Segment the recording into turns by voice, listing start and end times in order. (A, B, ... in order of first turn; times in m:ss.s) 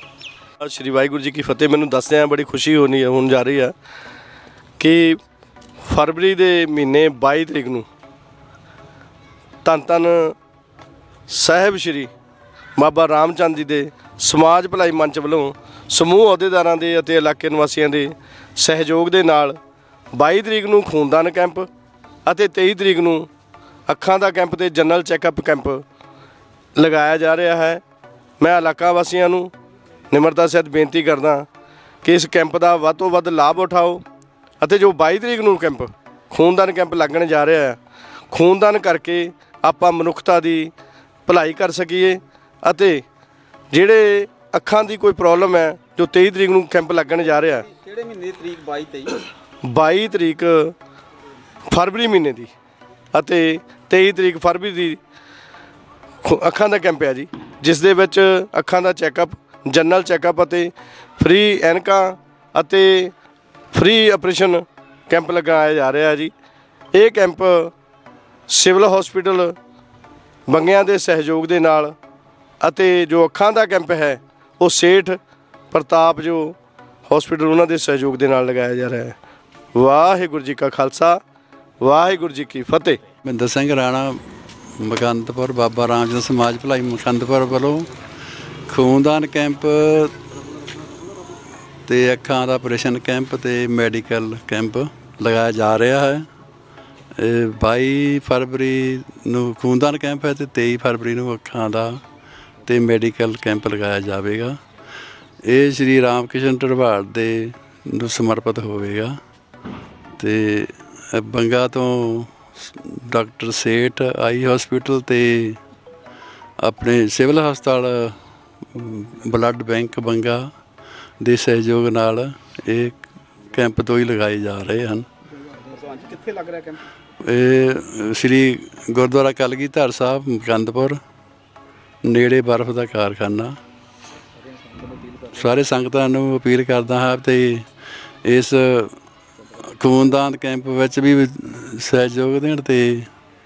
0:00.6-0:03.7 A
0:04.8-0:05.2 A
0:05.8-0:07.8 A
0:09.6-0:10.3 A
0:11.3-0:12.1 A
0:12.8-0:19.6 A
0:20.1-0:21.7 A
0:22.2-0:23.3 A
0:23.9-0:25.8 A
0:26.8-0:27.8 A
0:28.4-0:29.5 A
0:30.1-0:31.5 A
0:32.0-0:34.0 A
0:34.6-0:37.8 A
0:38.3-0:40.7 A
0:41.3-0:43.0 A
0:43.7-0:47.6 A
0:47.5-0:49.2 B
0:49.6-0:50.7 A
0:51.7-0:52.5 A
0:53.1-0:55.0 A
0:56.2-1:03.1 A
1:03.7-1:06.3 A
1:06.9-1:07.7 A
1:08.5-1:09.5 A
1:10.5-1:11.9 A
1:12.6-1:15.2 A
1:15.7-1:16.5 A
1:17.1-1:19.1 A
1:19.8-1:21.2 A
1:21.8-1:23.0 A
1:23.2-1:24.2 C
1:24.8-1:27.9 C
1:28.7-1:30.2 C
1:31.8-1:36.3 C
1:37.2-1:42.0 C
1:42.6-1:44.6 C
1:45.4-1:49.2 C
1:50.2-1:55.6 C
1:56.6-1:58.1 C
1:58.7-2:00.5 C
2:01.2-2:05.0 C
2:05.5-2:06.8 B
2:07.2-2:11.0 C
2:12.0-2:13.6 C
2:15.0-2:17.6 C
2:18.2-2:19.0 C
2:19.5-2:23.1 C